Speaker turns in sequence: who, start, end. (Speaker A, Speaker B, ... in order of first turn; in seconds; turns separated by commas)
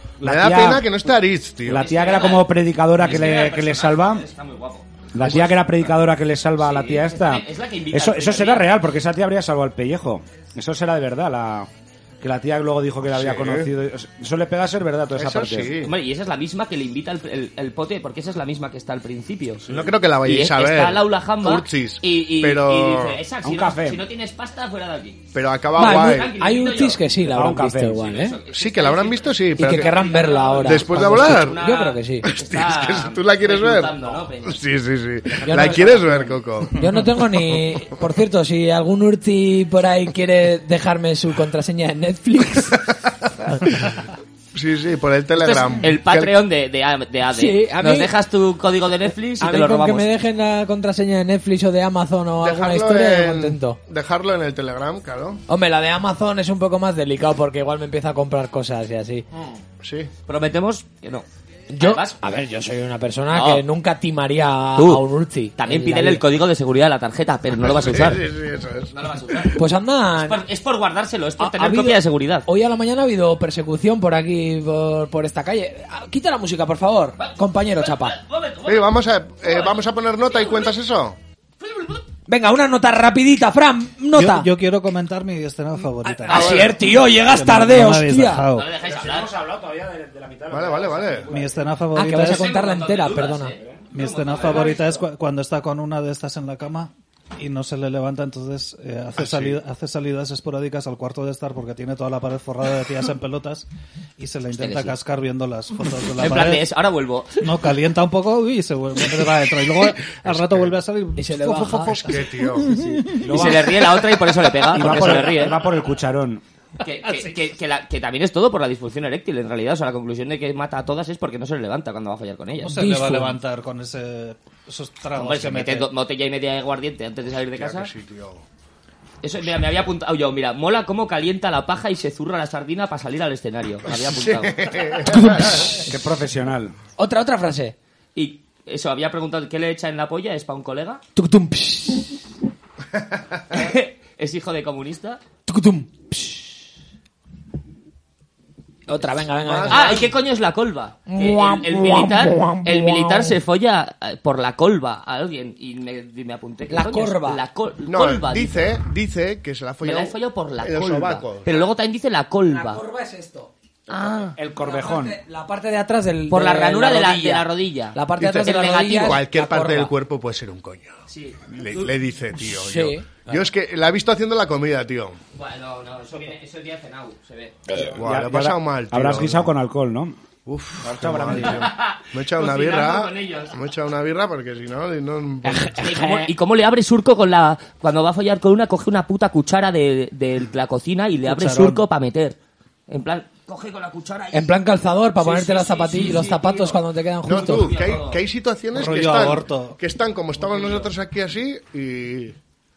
Speaker A: 0.2-0.9, Speaker B: 0.2-2.0, Speaker A: 1.6-4.2, Speaker C: 1.7-2.5, Speaker C: 3.0-5.5, Speaker A: 5.1-11.7, Speaker C: 6.6-8.7, Speaker A: 12.2-15.7, Speaker B: 13.1-13.7, Speaker B: 15.2-15.9, Speaker C: 15.8-25.2, Speaker B: 19.7-23.2, Speaker A: 23.4-24.0, Speaker B: 25.3-26.3, Speaker D: 25.8-28.4, Speaker C: 25.8-27.0, Speaker A: 27.3-28.1, Speaker C: 28.0-34.6, Speaker B: 28.5-29.9, Speaker D: 29.6-32.2, Speaker B: 30.6-31.6, Speaker B: 32.2-36.8, Speaker D: 35.4-36.1, Speaker A: 35.7-36.1, Speaker D: 36.8-42.9, Speaker B: 43.6-43.9, Speaker B: 44.5-46.3, Speaker C: 45.3-50.1, Speaker D: 47.3-48.1, Speaker D: 49.4-53.8, Speaker B: 52.4-55.4, Speaker D: 55.5-59.2, Speaker B: 59.8-60.1, Speaker C: 60.3-61.2, Speaker D: 61.7-66.2, Speaker C: 61.8-62.1, Speaker C: 63.3-63.6, Speaker C: 64.8-65.0, Speaker C: 65.6-68.2, Speaker B: 67.6-69.5, Speaker C: 68.9-69.6, Speaker D: 69.5-70.4, Speaker C: 70.2-72.4, Speaker D: 71.4-78.2, Speaker C: 77.2-80.7, Speaker B: 78.7-81.2, Speaker C: 81.6-82.0, Speaker D: 82.3-84.5, Speaker E: 84.1-88.7, Speaker D: 86.2-88.5, Speaker C: 86.3-86.7, Speaker C: 88.5-89.3, Speaker A: 88.8-91.7, Speaker B: 90.5-91.3, Speaker E: 91.3-92.5, Speaker D: 91.9-93.5, Speaker C: 92.2-95.0, Speaker E: 93.9-103.7, Speaker B: 99.2-99.6, Speaker E: 104.2-106.6, Speaker C: 104.5-104.9, Speaker C: 106.2-107.4, Speaker E: 107.4-113.4, Speaker B: 110.2-110.7, Speaker D: 111.2-112.1, Speaker B: 112.0-112.8, Speaker A: 113.1-113.8, Speaker C: 113.2-115.6, Speaker A: 114.7-116.4, Speaker C: 116.8-123.4, Speaker E: 122.6-125.9, Speaker C: 125.2-127.9, Speaker B: 127.6-128.4, Speaker C: 129.2-134.6, Speaker B: 133.9-135.9, Speaker A: 135.1-136.7, Speaker D: 137.0-137.7, Speaker C: 138.1-141.0, Speaker D: 141.2-142.2, Speaker B: 142.9-143.6, Speaker C: 143.5-145.2, Speaker D: 145.5-146.6, Speaker D: 148.9-149.9, Speaker B: 149.4-150.1, Speaker C: 149.7-158.8, Speaker D: 151.1-152.6, Speaker D: 156.7-157.4, Speaker B: 157.8-161.5, Speaker C: 159.8-162.8, Speaker D: 162.5-163.5, Speaker C: 163.9-164.3, Speaker A: 164.4-165.2, Speaker D: 164.6-169.9, Speaker C: 166.3-169.2, Speaker B: 168.2-175.2, Speaker C: 171.1-171.9, Speaker D: 172.4-173.4, Speaker C: 175.3-177.6, Speaker A: 177.7-180.2, Speaker B: 177.9-179.5, Speaker B: 180.4-185.8, Speaker A: 180.8-181.7, Speaker C: 181.4-183.5, Speaker D: 185.4-186.3, Speaker C: 185.8-192.3, Speaker E: 191.2-191.8, Speaker C: 192.9-194.6, Speaker D: 194.3-197.7, Speaker C: 195.2-198.2, Speaker B: 197.2-202.3, Speaker E: 198.7-199.8, Speaker C: 200.4-200.9